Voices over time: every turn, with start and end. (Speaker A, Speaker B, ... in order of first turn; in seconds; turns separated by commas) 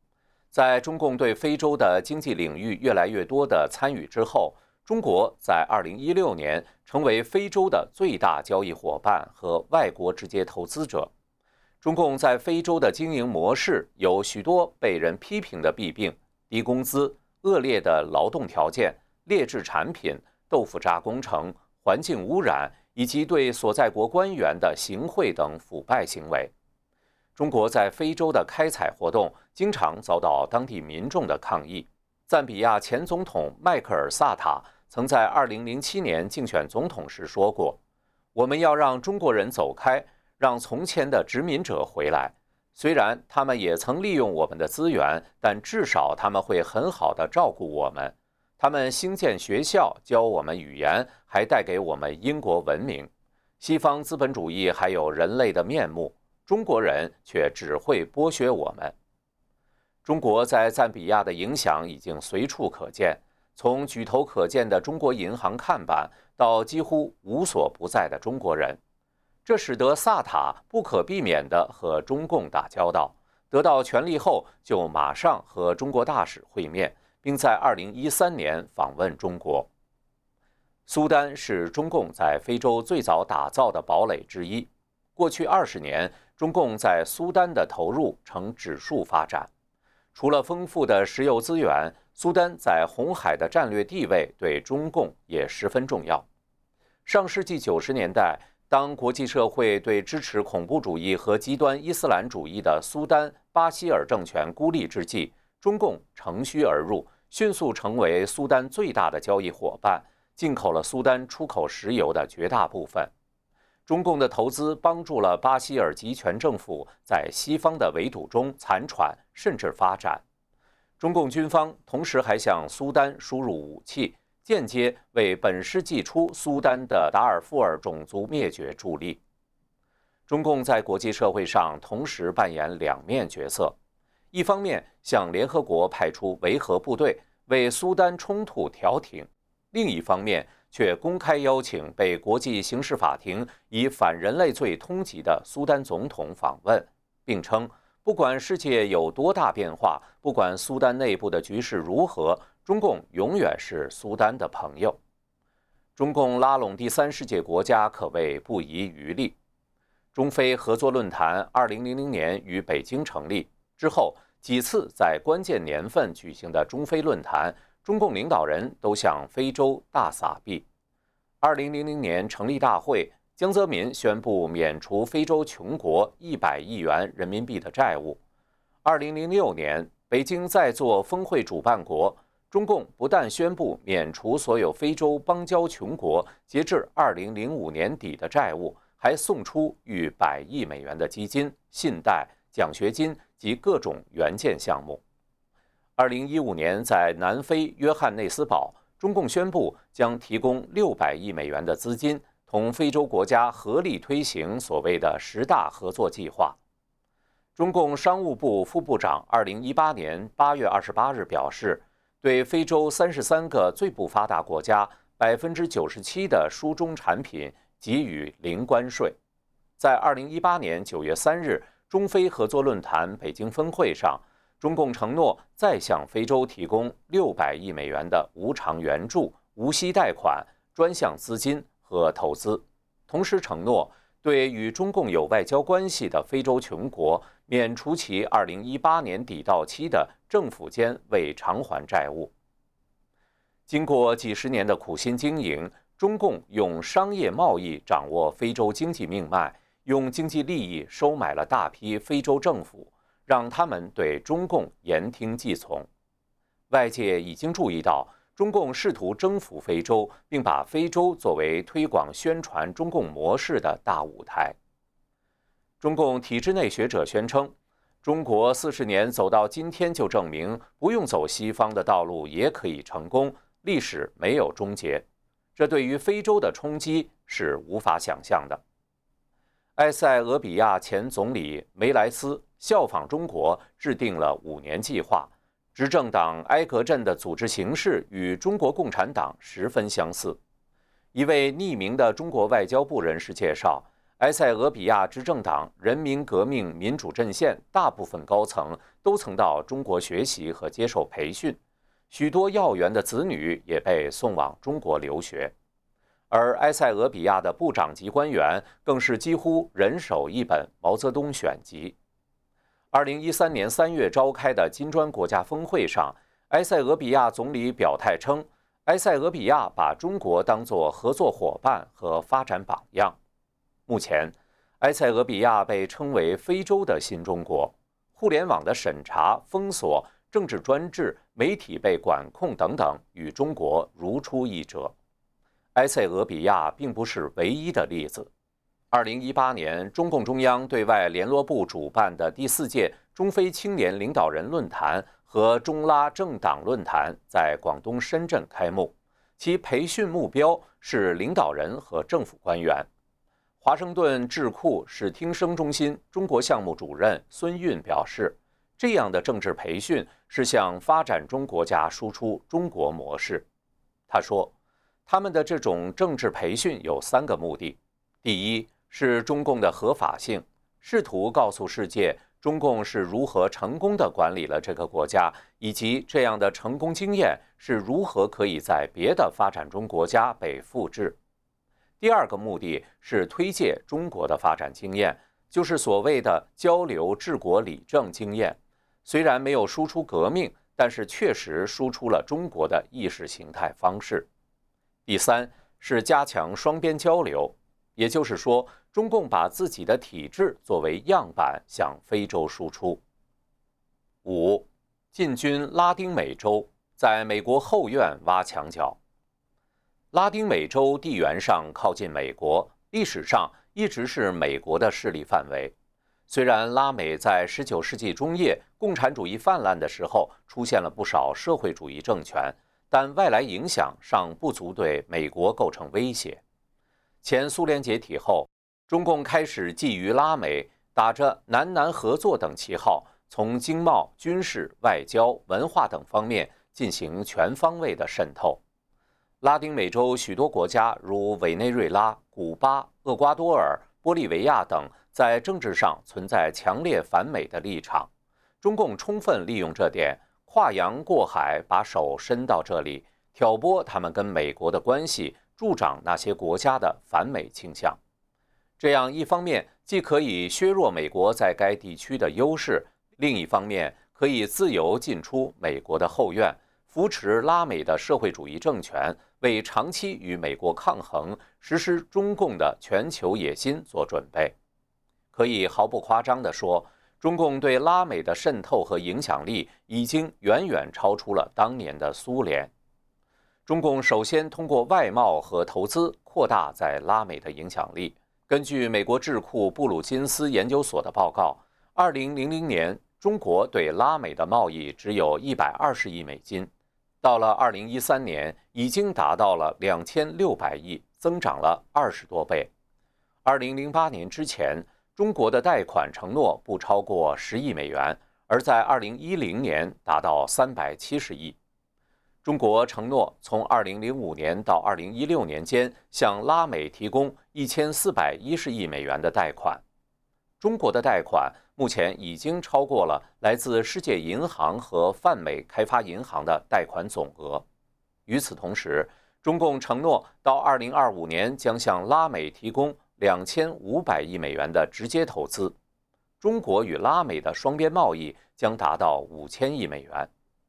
Speaker A: 0.5-11.1, Speaker A: 11.8-26.5, Speaker A: 27.4-37.8, Speaker A: 38.4-59.0, Speaker A: 60.0-68.8, Speaker A: 69.5-79.7, Speaker A: 80.9-89.5, Speaker A: 90.1-96.3, Speaker A: 97.0-113.1, Speaker A: 113.9-120.2, Speaker A: 121.0-129.2, Speaker A: 130.3-133.8, Speaker A: 134.3-155.0, Speaker A: 156.0-159.4, Speaker A: 160.1-170.7, Speaker A: 171.4-178.2, Speaker A: 178.8-195.0, Speaker A: 196.0-206.6, Speaker A: 207.6-219.2, Speaker A: 219.8-242.3, Speaker A: 243.7-255.9, Speaker A: 256.7-264.6, Speaker A: 265.8-275.1, Speaker A: 275.6-278.6, Speaker A: 279.8-290.4, Speaker A: 291.1-301.6, Speaker A: 302.1-305.5, Speaker A: 306.3-311.9, Speaker A: 312.9-323.2, Speaker A: 323.9-334.9, Speaker A: 335.8-338.3, Speaker A: 338.9-352.9, Speaker A: 353.6-363.5, Speaker A: 364.1-364.5, Speaker A: 365.1-381.2, Speaker A: 382.0-394.3, Speaker A: 395.1-403.0, Speaker A: 404.2-409.0, Speaker A: 410.1-415.7, Speaker A: 416.3-426.4, Speaker A: 427.2-438.6, Speaker A: 439.4-448.1, Speaker A: 448.6-458.0, Speaker A: 458.8-474.6, Speaker A: 475.3-482.7, Speaker A: 483.7-496.7, Speaker A: 497.2-502.7, Speaker A: 503.4-511.6, Speaker A: 512.4-519.8, Speaker A: 520.6-527.6, Speaker A: 528.3-535.8, Speaker A: 536.4-540.3